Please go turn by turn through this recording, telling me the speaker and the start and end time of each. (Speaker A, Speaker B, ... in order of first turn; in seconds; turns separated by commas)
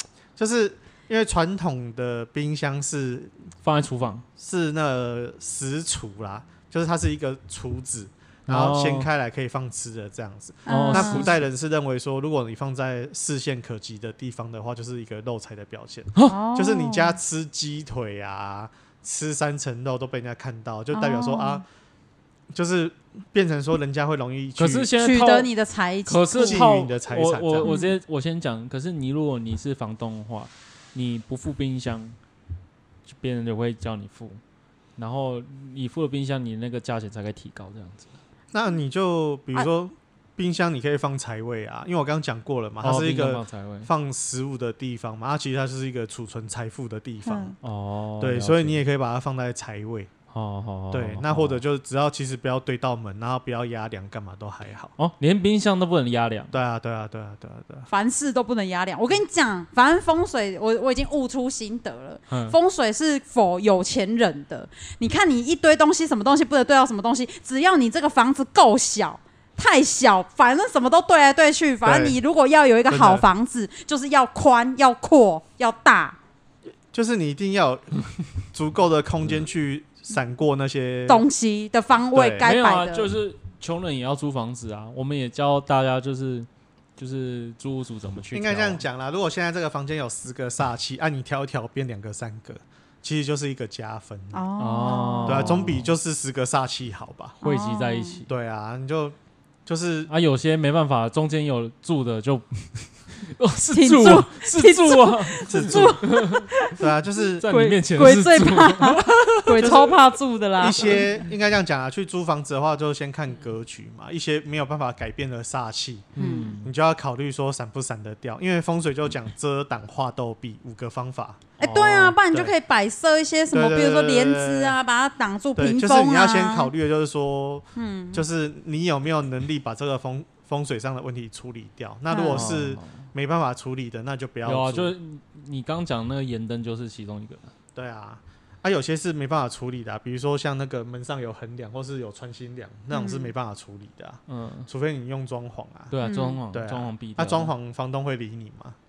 Speaker A: 0.3-3.4, Speaker B: 3.6-4.2, Speaker A: 4.4-21.6, Speaker B: 8.5-9.1, Speaker C: 10.7-11.3, Speaker B: 10.7-11.3, Speaker C: 16.2-17.2, Speaker C: 20.9-21.6, Speaker A: 22.5-24.9, Speaker B: 24.6-25.5, Speaker C: 25.0-26.6, Speaker B: 26.1-32.1, Speaker A: 26.4-27.7, Speaker C: 27.6-27.9, Speaker B: 33.1-34.4, Speaker B: 35.0-38.1, Speaker A: 38.5-47.6, Speaker B: 42.8-43.9, Speaker C: 47.2-47.5, Speaker B: 47.6-48.8, Speaker A: 48.2-50.1, Speaker B: 50.3-51.6, Speaker A: 50.9-54.9, Speaker B: 55.0-56.5, Speaker A: 56.5-57.9, Speaker C: 57.9-76.2, Speaker B: 62.3-62.5, Speaker A: 71.8-72.2, Speaker A: 72.9-73.3, Speaker A: 76.9-81.2, Speaker C: 81.1-83.1, Speaker A: 82.1-82.5, Speaker B: 82.4-88.8, Speaker A: 88.3-94.4, Speaker C: 94.3-95.6, Speaker B: 94.6-95.9, Speaker A: 95.2-97.4, Speaker C: 97.4-98.2, Speaker B: 97.4-98.3, Speaker A: 98.3-100.1, Speaker B: 100.1-106.5, Speaker C: 103.7-106.8, Speaker A: 105.5-106.0, Speaker A: 106.8-107.5, Speaker B: 107.4-109.8, Speaker C: 107.4-111.0, Speaker A: 109.6-110.0, Speaker A: 110.6-116.1, Speaker B: 110.8-111.2, Speaker B: 116.2-116.7, Speaker C: 116.2-116.5, Speaker A: 116.6-121.4, Speaker C: 121.6-126.7, Speaker B: 121.6-122.2, Speaker A: 123.5-124.8, Speaker A: 125.5-134.9, Speaker C: 127.8-128.2, Speaker C: 132.1-132.5, Speaker B: 132.3-133.1, Speaker B: 134.4-137.5, Speaker A: 137.7-145.9, Speaker C: 142.9-143.3, Speaker B: 144.3-144.7, Speaker B: 145.9-147.5, Speaker C: 146.0-146.4, Speaker A: 146.5-148.8